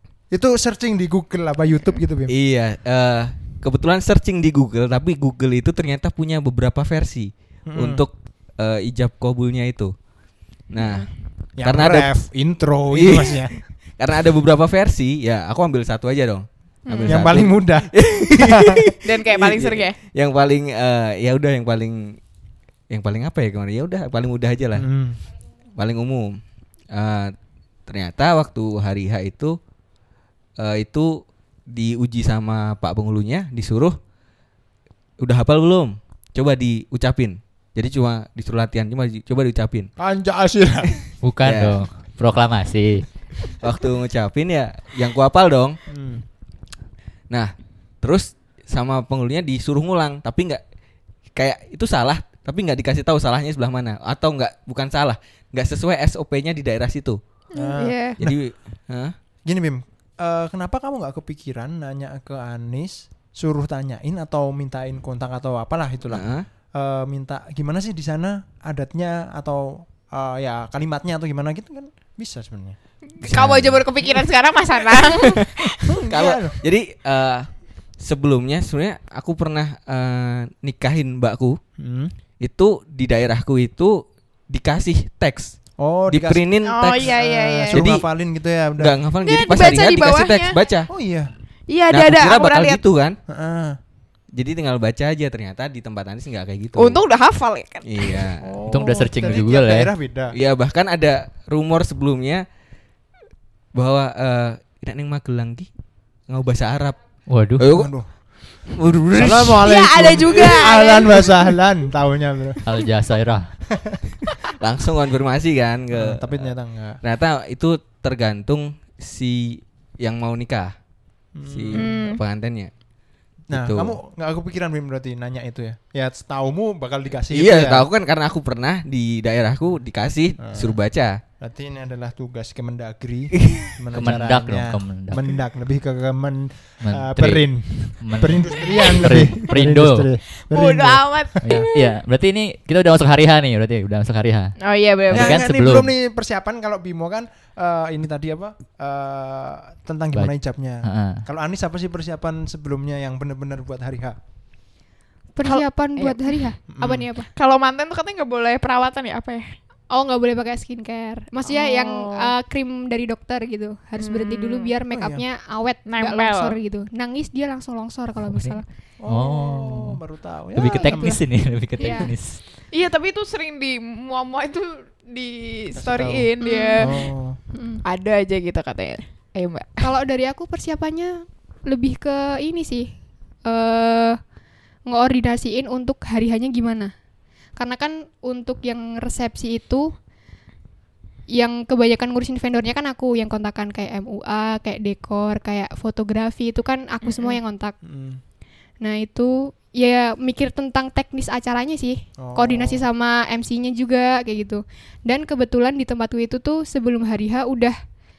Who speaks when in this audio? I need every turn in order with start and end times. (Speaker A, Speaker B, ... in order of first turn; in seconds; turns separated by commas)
Speaker A: 0.3-2.3, Speaker B: 2.3-9.9, Speaker A: 7.7-8.0, Speaker B: 10.7-12.1, Speaker C: 10.7-11.1, Speaker A: 11.6-13.6, Speaker B: 12.9-22.2, Speaker C: 16.9-17.3, Speaker A: 17.1-18.9, Speaker C: 19.0-20.0, Speaker B: 22.9-24.9, Speaker A: 24.8-25.2, Speaker B: 25.8-26.4, Speaker B: 26.9-27.3, Speaker B: 27.9-29.6, Speaker B: 30.6-34.0, Speaker B: 35.2-39.9, Speaker A: 40.0-41.1, Speaker D: 41.2-43.1, Speaker B: 41.4-41.8, Speaker B: 43.6-45.8, Speaker A: 45.9-46.2, Speaker B: 47.3-50.6, Speaker B: 51.4-57.2, Speaker C: 57.5-58.2, Speaker A: 57.5-58.4, Speaker B: 58.2-59.1, Speaker A: 59.5-72.8, Speaker B: 66.1-66.5, Speaker C: 73.1-76.0, Speaker B: 73.2-73.8, Speaker B: 75.1-75.5, Speaker A: 75.9-76.6, Speaker B: 76.1-77.5, Speaker B: 78.0-81.6, Speaker A: 81.8-82.1, Speaker B: 82.4-85.6, Speaker A: 85.8-86.5, Speaker B: 86.1-87.1, Speaker C: 86.6-87.9, Speaker A: 87.0-89.0, Speaker B: 87.7-88.0, Speaker B: 88.8-90.9, Speaker C: 89.2-90.6, Speaker A: 90.9-91.3, Speaker C: 91.7-92.8, Speaker B: 91.9-93.2, Speaker A: 93.3-93.8, Speaker B: 94.3-97.0, Speaker C: 96.8-98.3, Speaker B: 97.8-98.5, Speaker A: 98.4-100.3, Speaker D: 98.7-99.9, Speaker B: 100.3-102.5, Speaker B: 103.7-105.7, Speaker B: 106.3-107.0, Speaker D: 107.3-107.7, Speaker B: 107.6-107.9, Speaker A: 107.7-108.1, Speaker B: 108.7-109.7, Speaker A: 109.1-112.6, Speaker C: 109.6-111.6, Speaker D: 112.7-113.5, Speaker A: 113.7-114.0, Speaker B: 114.6-120.8, Speaker A: 115.9-117.0, Speaker A: 121.3-122.0, Speaker B: 121.5-122.7, Speaker C: 121.7-122.2, Speaker A: 123.5-127.9, Speaker B: 123.5-124.0, Speaker B: 127.3-131.2, Speaker A: 130.4-130.8, Speaker A: 131.4-141.7, Speaker B: 133.4-133.8, Speaker D: 133.9-135.3, Speaker D: 136.8-140.1, Speaker C: 140.5-141.9, Speaker D: 141.4-145.9, Speaker C: 144.6-145.4, Speaker A: 145.1-154.2, Speaker D: 150.1-151.2, Speaker E: 155.3-157.3, Speaker C: 155.4-156.4, Speaker A: 156.7-157.1, Speaker C: 157.4-159.6, Speaker E: 159.9-168.7, Speaker C: 161.4-162.3, Speaker C: 164.0-164.7, Speaker A: 164.9-165.2, Speaker C: 165.9-166.6, Speaker D: 168.3-170.0, Speaker A: 169.0-171.2, Speaker D: 170.5-172.4, Speaker E: 170.7-171.2, Speaker E: 171.8-172.1, Speaker C: 172.7-177.0, Speaker A: 175.8-176.3, Speaker E: 176.4-177.8, Speaker A: 176.8-177.4, Speaker C: 177.8-179.9, Speaker E: 179.8-182.9, Speaker E: 183.4-184.2, Speaker E: 184.9-186.9, Speaker E: 187.6-189.9, Speaker E: 191.3-197.8, Speaker C: 197.0-197.4, Speaker A: 197.8-198.2, Speaker E: 198.8-207.8, Speaker A: 202.2-202.9